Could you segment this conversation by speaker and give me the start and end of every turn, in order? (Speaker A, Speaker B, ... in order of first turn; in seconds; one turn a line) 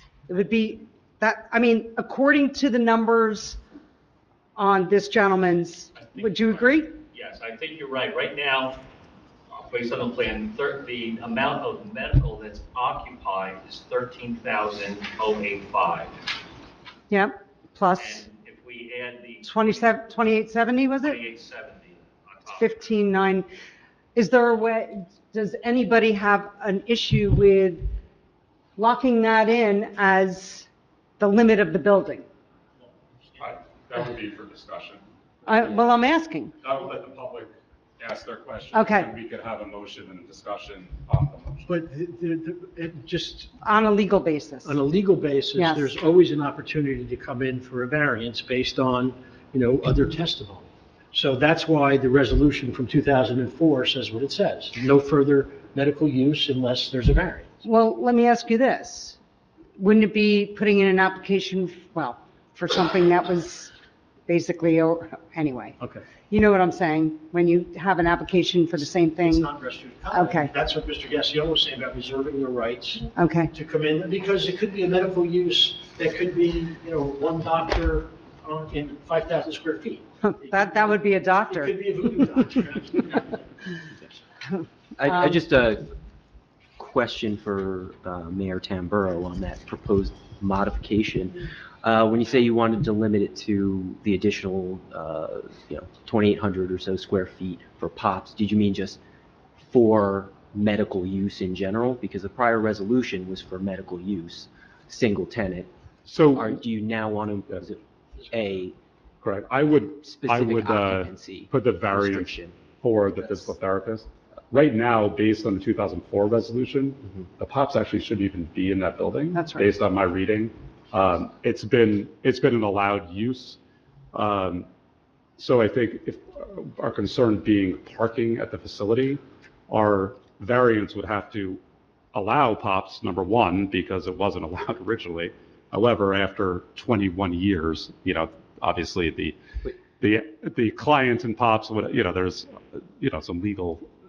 Speaker A: 0.3-3.6
Speaker A: 4.5-7.0
Speaker B: 6.4-8.8
Speaker B: 9.5-16.2
Speaker A: 17.1-18.2
Speaker B: 17.9-19.9
Speaker A: 19.4-21.2
Speaker B: 21.0-22.7
Speaker A: 22.5-23.5
Speaker A: 24.1-27.9
Speaker A: 28.8-30.7
Speaker A: 31.2-32.2
Speaker C: 33.4-35.0
Speaker A: 35.5-36.5
Speaker C: 36.6-41.6
Speaker A: 38.7-39.1
Speaker D: 41.7-43.6
Speaker A: 43.6-44.8
Speaker D: 44.6-57.5
Speaker A: 45.5-45.9
Speaker A: 57.6-59.2
Speaker A: 59.8-63.7
Speaker A: 64.3-69.5
Speaker D: 69.2-83.3
Speaker A: 70.1-70.5
Speaker A: 73.1-73.5
Speaker A: 80.2-81.8
Speaker E: 85.0-85.9
Speaker E: 86.8-99.0
Speaker E: 99.6-105.7
Speaker C: 106.0-106.6
Speaker E: 106.3-108.8
Speaker C: 109.2-123.6
Speaker E: 110.0-112.5
Speaker E: 113.2-113.5
Speaker A: 119.3-119.7
Speaker C: 124.1-124.7
Speaker C: 125.4-131.6
Speaker C: 132.1-139.4
Speaker C: 140.0-143.8